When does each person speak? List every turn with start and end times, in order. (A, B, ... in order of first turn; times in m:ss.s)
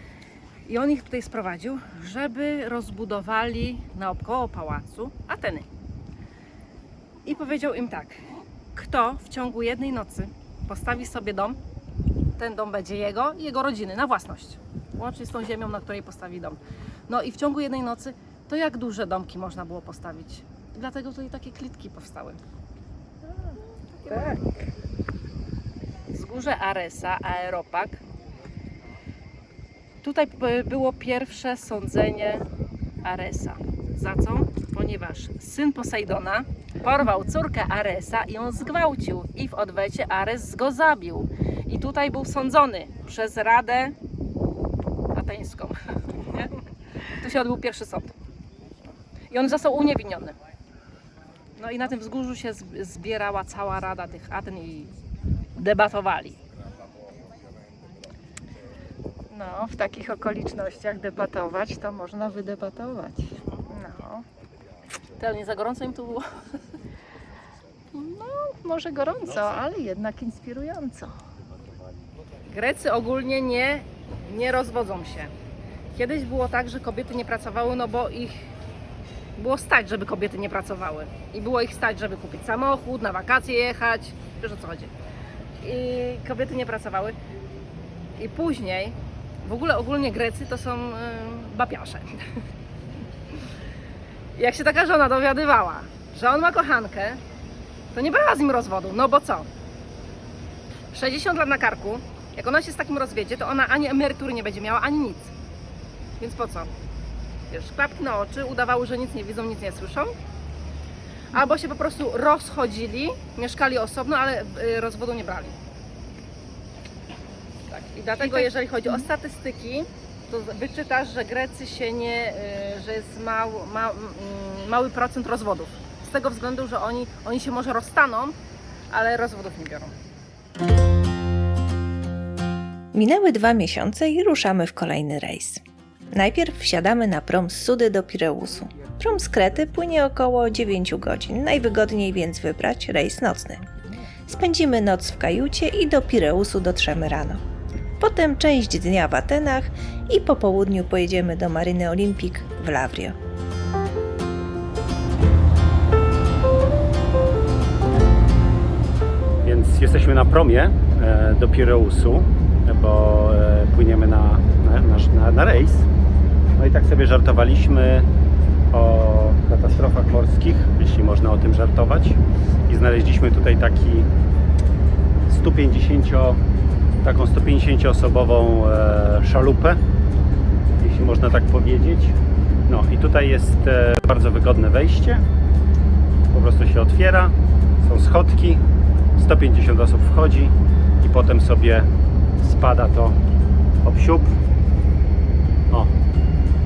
0:00.6-0:05.6 A
0:07.2-0:08.2 A
0:08.7-0:11.6 A
0:12.4-0:22.4 A
0:24.0-0:24.4 A
0:26.1-0:28.0 A
0:30.0-0:32.4 A
0:33.0-0:43.9 A
0:45.1-0:46.6 A
0:47.1-0:48.1 A
0:49.3-0:50.4 A
0:51.6-0:54.9 A
0:55.6-0:56.4 A
0:59.3-1:04.2 B
1:05.2-1:06.2 A
1:07.9-1:11.1 B
1:09.2-1:09.6 C
1:12.5-1:15.3 A
1:15.9-1:18.5 A
1:19.4-1:24.9 A
1:25.6-1:27.2 A
1:28.2-1:32.2 A
1:34.4-1:37.2 A
1:37.9-1:39.5 A
1:40.9-1:45.3 A
1:46.2-1:46.7 A
1:47.5-1:50.1 A
1:51.3-1:55.6 A
1:57.7-2:08.3 A
1:58.2-1:59.1 B
2:08.9-2:09.9 A
2:12.9-2:23.7 D
2:24.2-2:27.4 D
2:28.0-2:33.2 D
2:39.4-2:45.9 C
2:46.6-2:48.1 C
2:48.7-2:54.1 C
2:55.3-2:56.4 C
2:57.0-2:59.8 C
3:00.8-3:02.2 C
3:02.7-3:05.2 C
3:06.3-3:08.6 C
3:09.2-3:11.9 C
3:12.4-3:13.2 C
3:13.8-3:14.4 C